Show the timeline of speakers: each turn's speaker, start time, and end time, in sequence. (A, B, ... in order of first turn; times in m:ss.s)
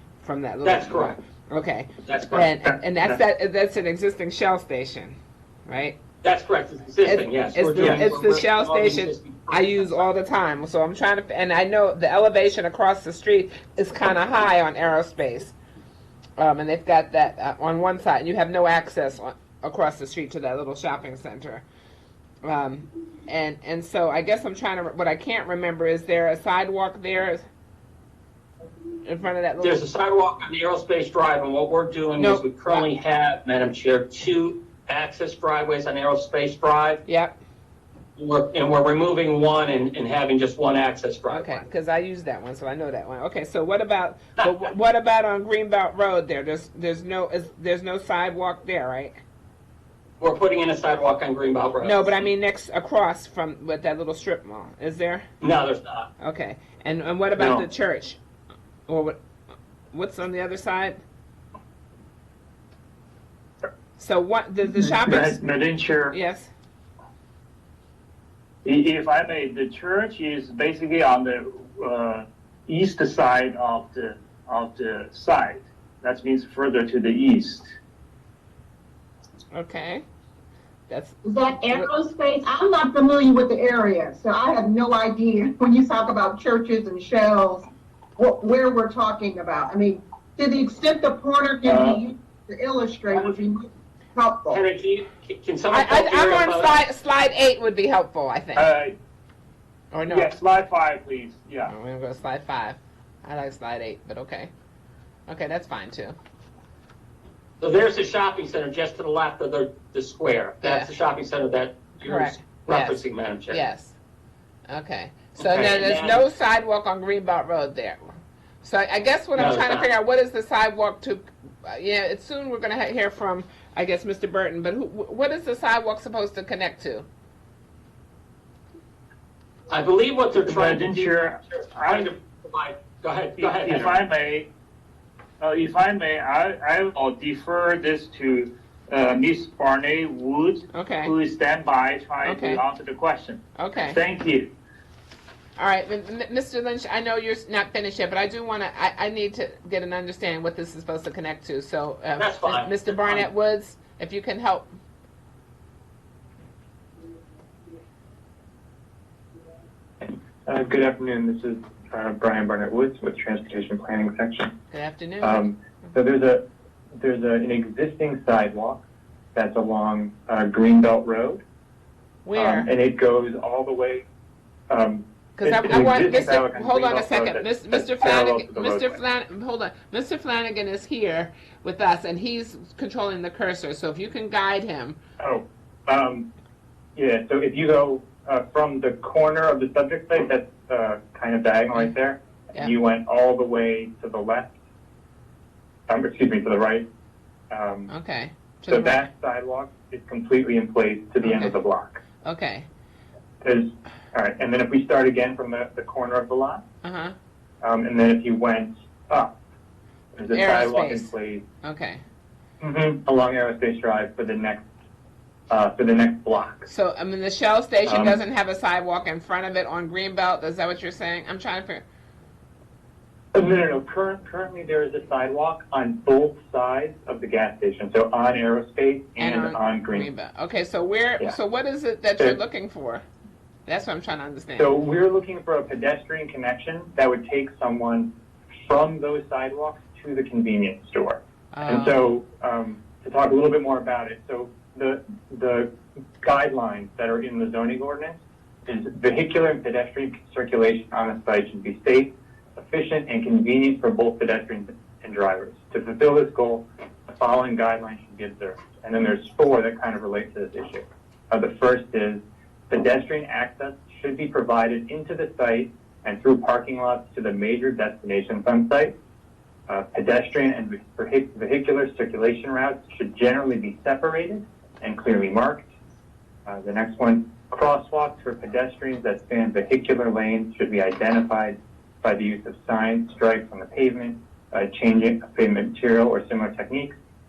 0:00.2-0:06.0 A
0:00.6-0:01.2 B
0:02.0-0:02.5 B
0:06.2-0:09.8 B
0:07.0-0:15.5 A
0:16.4-0:21.6 A
0:22.4-0:27.4 A
0:29.0-0:29.8 A
0:29.6-0:37.0 B
0:32.2-0:32.9 A
0:37.0-0:37.4 A
0:38.2-0:41.6 B
0:41.3-0:49.2 A
0:50.2-0:52.2 B
0:51.8-0:55.2 A
0:55.4-0:56.1 B
0:56.2-0:58.2 A
0:57.4-0:57.6 C
0:58.9-0:59.2 A
0:59.9-1:01.0 A
1:04.0-1:05.4 A
1:04.8-1:06.1 C
1:06.1-1:06.5 A
1:08.6-1:17.7 C
1:19.5-1:20.0 A
1:20.9-1:21.9 A
1:21.2-1:27.6 D
1:28.2-1:34.6 D
1:31.6-1:32.0 C
1:34.5-1:36.8 B
1:35.7-1:38.7 A
1:38.5-1:38.9 C
1:39.9-1:40.3 A
1:40.1-1:41.7 C
1:41.6-1:44.5 A
1:45.3-1:46.2 A
1:47.6-1:53.6 B
1:50.6-1:50.9 A
1:52.0-1:53.9 A
1:54.7-1:58.0 A
1:55.4-1:56.2 B
1:58.6-2:07.1 A
1:59.3-1:59.9 B
2:09.7-2:14.0 B
2:10.4-2:12.1 C
2:13.4-2:14.5 C
2:15.4-2:24.5 C
2:20.7-2:21.1 A
2:22.2-2:22.6 A
2:23.6-2:24.0 A
2:25.6-2:34.7 A
2:32.2-2:33.2 B
2:40.0-2:44.5 E
2:44.7-2:45.4 A
2:45.2-2:46.4 E
2:47.0-2:48.8 E
2:49.3-2:51.4 E
2:52.2-2:52.7 A
2:52.4-2:54.0 E
2:54.7-2:59.0 E
2:55.4-3:05.0 A
3:05.2-3:06.3 E
3:06.9-3:14.5 E
3:15.9-3:16.9 E
3:17.5-3:17.9 E
3:17.9-3:19.0 A
3:18.7-3:22.0 E
3:21.2-3:21.5 A
3:22.2-3:22.7 A
3:23.4-3:26.6 E
3:26.8-3:27.1 A
3:27.6-3:29.3 E
3:30.2-3:31.4 E
3:30.3-3:31.1 A
3:31.6-3:32.0 A
3:32.6-3:34.6 E
3:35.5-3:36.7 E
3:36.7-3:41.8 A
3:37.8-3:38.2 E
3:43.3-3:50.1 E
3:49.2-3:53.0 A
3:53.6-3:54.7 A
3:54.6-3:58.1 E
3:58.6-4:05.7 E
4:01.5-4:02.0 A
4:06.2-4:28.9 E
4:29.7-4:35.6 E
4:36.4-4:46.9 E